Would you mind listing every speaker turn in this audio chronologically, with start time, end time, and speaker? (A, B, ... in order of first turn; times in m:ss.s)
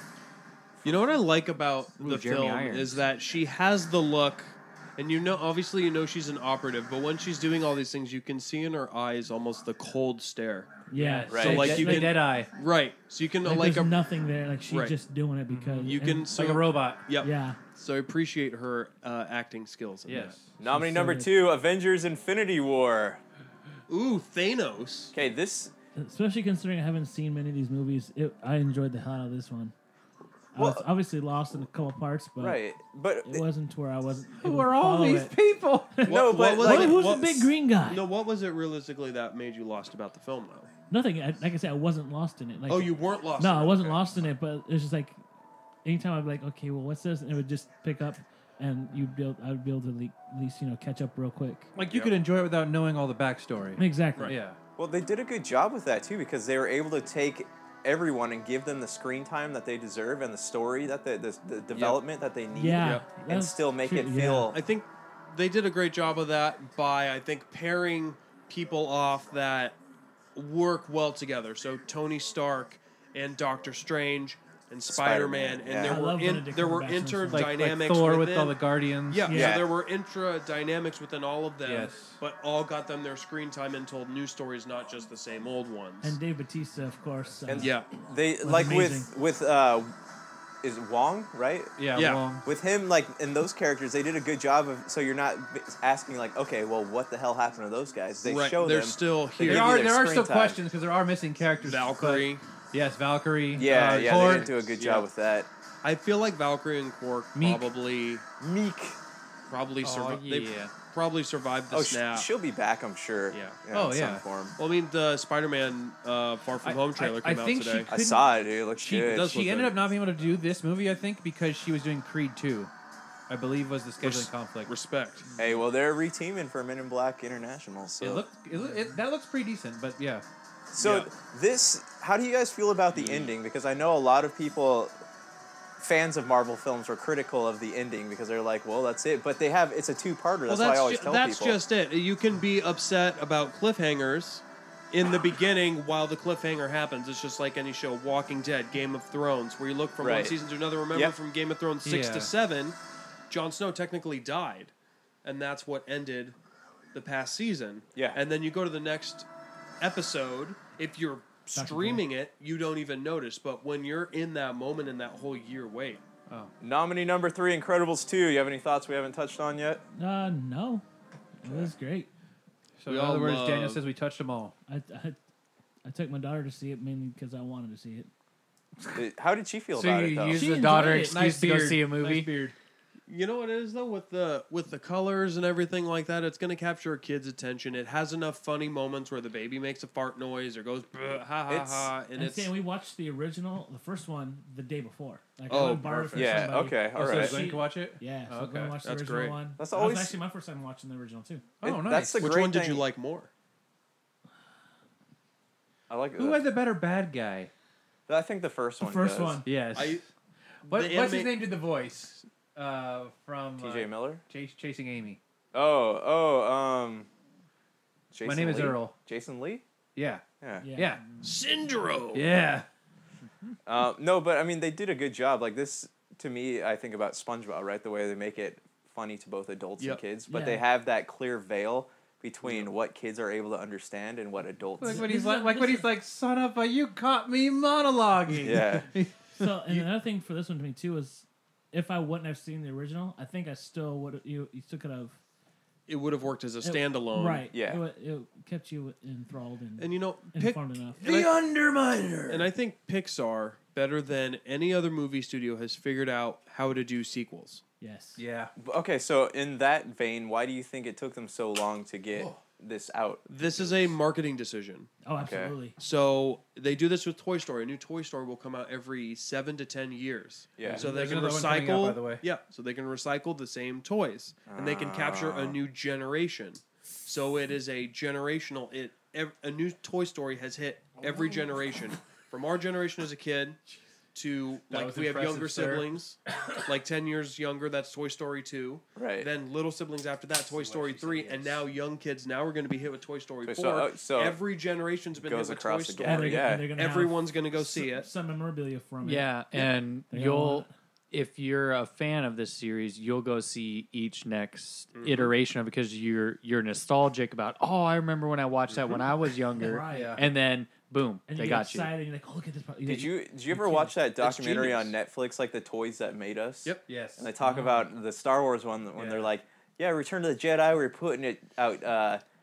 0:00.8-0:10.8 A
0:02.0-0:03.0 B
0:10.9-0:12.2 C
0:11.0-0:12.5 D
0:11.3-0:11.8 E
0:11.4-0:14.0 A
0:13.4-0:16.3 C
0:14.7-0:15.0 A
0:15.5-0:17.0 D
0:15.8-0:20.4 A
0:17.2-0:17.6 C
0:20.1-0:20.5 D
0:20.6-0:23.2 E
0:20.6-0:21.3 C
0:23.9-0:25.2 A
0:25.1-0:25.7 E
0:26.0-0:29.7 C
0:30.5-0:32.6 C
0:30.6-0:30.9 E
0:32.4-0:33.4 E
0:33.2-0:35.4 C
0:34.4-0:36.0 D
0:35.9-0:38.0 C
0:36.0-0:40.7 A
0:36.1-0:37.3 E
0:40.9-0:45.2 C
0:42.7-0:44.0 A
0:45.8-0:51.7 C
0:51.8-0:54.6 D
0:51.9-0:52.2 E
0:53.8-0:54.4 C
0:54.8-1:04.6 E
1:01.7-1:02.0 D
1:02.5-1:04.6 C
1:02.8-1:03.1 A
1:04.5-1:09.8 A
1:10.4-1:26.2 A
1:14.9-1:16.0 E
1:15.8-1:17.5 C
1:17.3-1:19.4 D
1:19.3-1:19.6 C
1:19.3-1:19.7 E
1:21.6-1:22.2 D
1:26.0-1:27.8 C
1:27.5-1:29.9 E
1:27.6-1:27.9 A
1:28.4-1:29.1 C
1:30.6-1:31.8 E
1:31.8-1:32.5 D
1:31.9-1:32.3 A
1:32.4-1:40.6 E
1:38.2-1:39.8 A
1:39.4-1:45.0 D
1:41.6-1:42.4 A
1:43.5-1:45.5 E
1:45.8-1:48.2 A
1:47.4-1:47.7 D
1:48.4-1:49.0 E
1:49.5-1:52.3 A
1:49.8-1:50.7 B
1:51.7-1:54.6 E
1:53.3-1:53.6 A
1:53.7-1:54.2 D
1:54.6-1:57.9 A
1:56.6-1:58.3 D
1:57.9-1:59.5 E
1:58.8-2:02.7 D
1:59.0-1:59.8 A
2:03.3-2:04.7 D
2:04.0-2:05.3 A
2:05.4-2:08.3 E
2:08.0-2:10.2 D
2:10.7-2:15.0 E
2:10.8-2:11.1 D
2:13.0-2:13.3 D
2:15.8-2:21.6 E
2:20.5-2:32.8 A
2:30.0-2:30.4 E
2:31.8-2:32.3 D
2:33.3-2:34.7 A
2:35.2-2:36.4 A
2:36.9-2:39.3 A
2:39.8-2:46.0 A
2:41.5-2:42.0 C
2:46.6-2:49.8 E
2:50.0-2:50.8 C
2:51.4-2:52.1 C
2:51.4-2:51.7 E
2:52.8-2:54.6 D
2:52.9-2:53.8 A
2:54.7-2:55.2 C
2:55.8-2:58.1 C
2:59.0-3:00.4 E
2:59.8-3:02.3 B
3:00.3-3:01.2 C
3:00.5-3:02.6 D
3:03.1-3:12.5 A
3:11.5-3:11.9 E
3:12.2-3:21.5 C
3:15.5-3:16.3 A
3:15.9-3:16.4 D
3:16.1-3:17.4 E
3:16.9-3:18.8 D
3:18.8-3:19.4 A
3:19.6-3:20.2 E
3:21.6-3:22.3 D
3:21.6-3:22.9 E
3:22.2-3:23.3 A
3:25.9-3:26.4 E
3:26.2-3:27.5 D
3:28.1-3:29.4 E
3:28.8-3:29.5 C
3:29.4-3:30.1 D
3:29.7-3:30.0 A
3:30.6-3:35.2 D
3:30.6-3:31.4 A
3:33.6-3:34.2 E
3:35.5-3:37.1 E
3:38.1-3:39.6 E
3:38.2-3:39.0 D
3:40.0-3:40.2 D
3:40.4-3:40.7 E
3:40.6-3:41.2 C
3:40.8-3:41.0 D
3:41.2-3:42.3 A
3:42.1-3:42.7 D
3:43.7-3:55.1 E
3:50.3-3:50.6 C
3:54.8-3:59.8 D
3:54.8-3:55.9 C
3:58.4-3:58.9 E
3:59.4-4:05.2 C
4:05.9-4:07.5 A
4:06.6-4:11.0 C
4:07.5-4:07.8 E
4:09.8-4:11.4 A
4:11.0-4:12.5 D
4:12.3-4:17.6 A
4:17.8-4:18.2 C
4:18.2-4:18.5 D
4:18.6-4:23.9 E
4:22.1-4:22.4 D
4:23.3-4:24.9 A
4:25.0-4:25.8 C
4:25.2-4:25.5 E
4:25.8-4:43.6 A
4:30.6-4:30.9 E
4:30.6-4:32.2 D
4:34.5-4:35.6 E
4:44.1-4:58.1 A
4:44.7-4:45.9 D
4:49.0-4:49.3 E
4:50.5-4:51.6 D
4:53.4-4:54.4 E
4:55.2-4:56.7 E
4:56.0-4:59.4 C
4:59.0-5:11.9 B
5:00.1-5:00.7 C
5:04.9-5:05.4 A
5:09.6-5:10.2 C
5:09.9-5:10.3 D
5:11.3-5:14.0 C
5:12.8-5:22.2 E
5:14.3-5:14.9 D
5:16.9-5:17.3 D
5:17.4-5:17.8 C
5:19.0-5:19.3 D